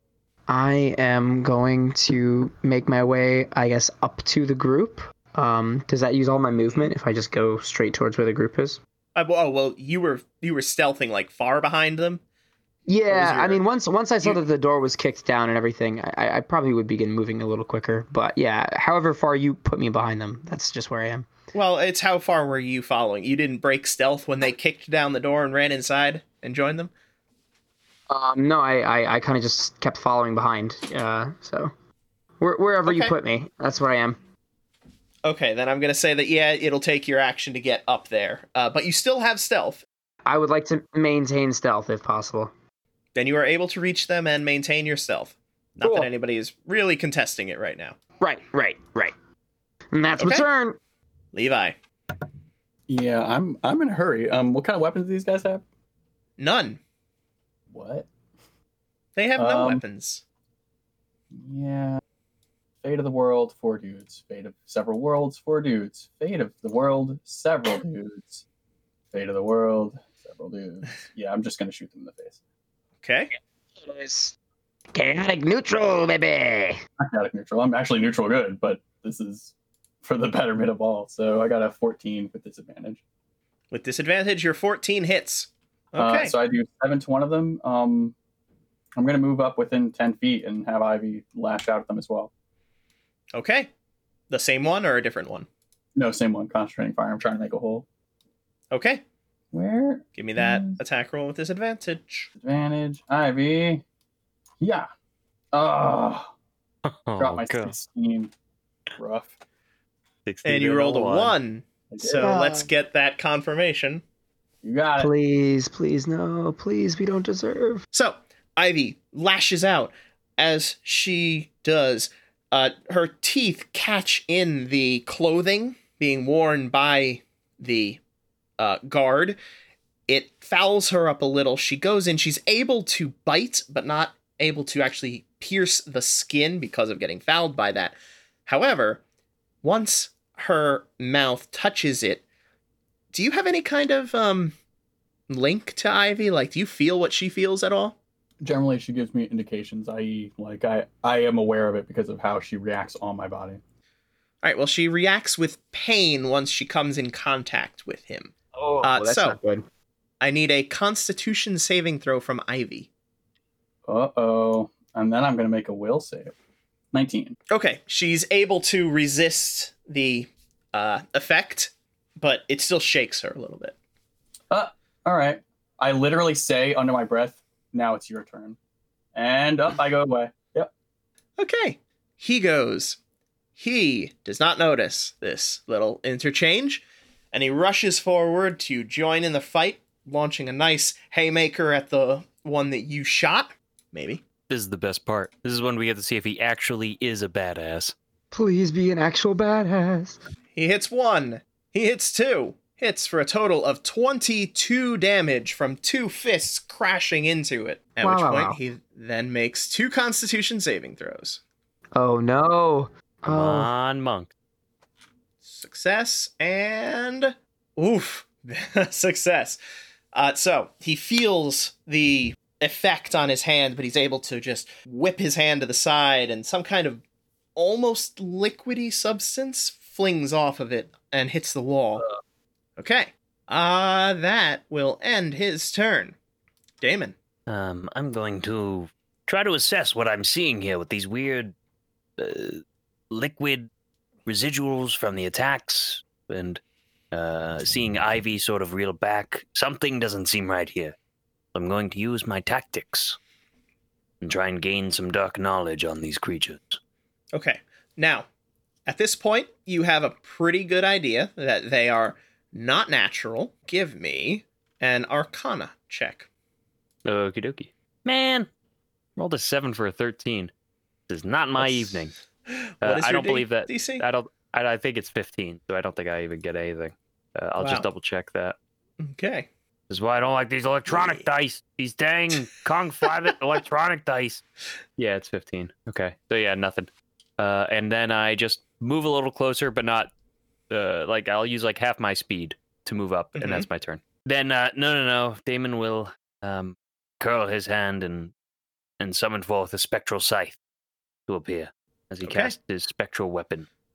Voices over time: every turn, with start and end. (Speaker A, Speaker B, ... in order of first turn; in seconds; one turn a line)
Speaker A: 0.5-8.8
Speaker B: 9.1-12.2
Speaker A: 12.9-21.3
Speaker B: 13.1-13.6
Speaker B: 21.5-26.9
Speaker A: 28.1-31.7
Speaker A: 32.4-34.2
Speaker B: 32.9-33.1
Speaker B: 35.2-39.8
Speaker A: 40.2-42.5
Speaker B: 43.1-48.0
Speaker A: 45.8-46.1
Speaker A: 48.2-49.1
Speaker A: 49.9-50.8
Speaker B: 50.2-50.5
Speaker B: 51.3-51.8
Speaker C: 52.9-55.6
Speaker B: 56.4-56.8
Speaker C: 57.7-58.1
Speaker B: 59.1-60.2
Speaker C: 59.4-59.8
Speaker C: 61.3-62.0
Speaker C: 62.8-68.4
Speaker C: 69.1-72.4
Speaker B: 73.0-73.3
Speaker A: 73.8-74.3
Speaker A: 74.9-76.8
Speaker C: 77.0-83.0
Speaker B: 83.7-86.3
Speaker C: 86.0-88.1
Speaker C: 89.0-92.3
Speaker B: 93.3-93.7
Speaker B: 94.3-95.5
Speaker C: 96.0-97.8
Speaker B: 98.7-99.0
Speaker C: 99.5-100.8
Speaker B: 100.2-102.3
Speaker C: 102.4-103.8
Speaker C: 104.6-104.9
Speaker C: 105.5-106.3
Speaker D: 106.8-107.8
Speaker C: 107.2-108.3
Speaker C: 109.0-109.3
Speaker D: 110.2-111.3
Speaker B: 110.4-114.0
Speaker C: 111.9-112.4
Speaker A: 112.2-112.7
Speaker C: 114.6-115.1
Speaker A: 115.0-117.8
Speaker B: 117.9-128.0
Speaker B: 128.6-129.4
Speaker B: 130.1-139.0
Speaker B: 139.6-142.2
Speaker B: 143.1-144.5
Speaker B: 145.3-148.0
Speaker C: 148.4-153.6
Speaker B: 154.4-159.4
Speaker A: 158.5-159.7
Speaker B: 160.2-162.9
Speaker C: 163.8-166.3
Speaker C: 166.9-167.3
Speaker B: 167.5-173.7
Speaker C: 174.5-178.6
Speaker C: 179.1-180.7
Speaker B: 181.4-183.0
Speaker B: 183.6-194.2
Speaker D: 194.5-197.9
Speaker A: 198.3-200.2
Speaker B: 200.5-211.4
Speaker A: 208.0-208.6
Speaker A: 211.9-213.7
Speaker D: 213.3-214.3
Speaker B: 215.4-219.6
Speaker B: 220.1-227.0
Speaker B: 227.6-232.1
Speaker B: 232.8-236.1
Speaker B: 236.8-237.1
Speaker D: 237.5-241.5
Speaker D: 242.2-243.7
Speaker D: 244.3-246.6
Speaker D: 247.1-250.9
Speaker D: 251.5-253.2
Speaker D: 254.2-256.8
Speaker B: 257.3-258.2
Speaker B: 258.9-266.3
Speaker D: 267.0-268.5
Speaker D: 269.1-270.5
Speaker D: 271.1-272.1
Speaker B: 271.6-274.0
Speaker D: 272.8-278.6
Speaker B: 277.6-277.9
Speaker B: 279.0-279.5
Speaker D: 279.9-284.4
Speaker B: 280.9-281.2
Speaker D: 285.0-290.1
Speaker D: 290.7-298.3
Speaker B: 293.4-293.6
Speaker D: 299.0-300.6
Speaker D: 301.3-303.7
Speaker B: 302.2-302.5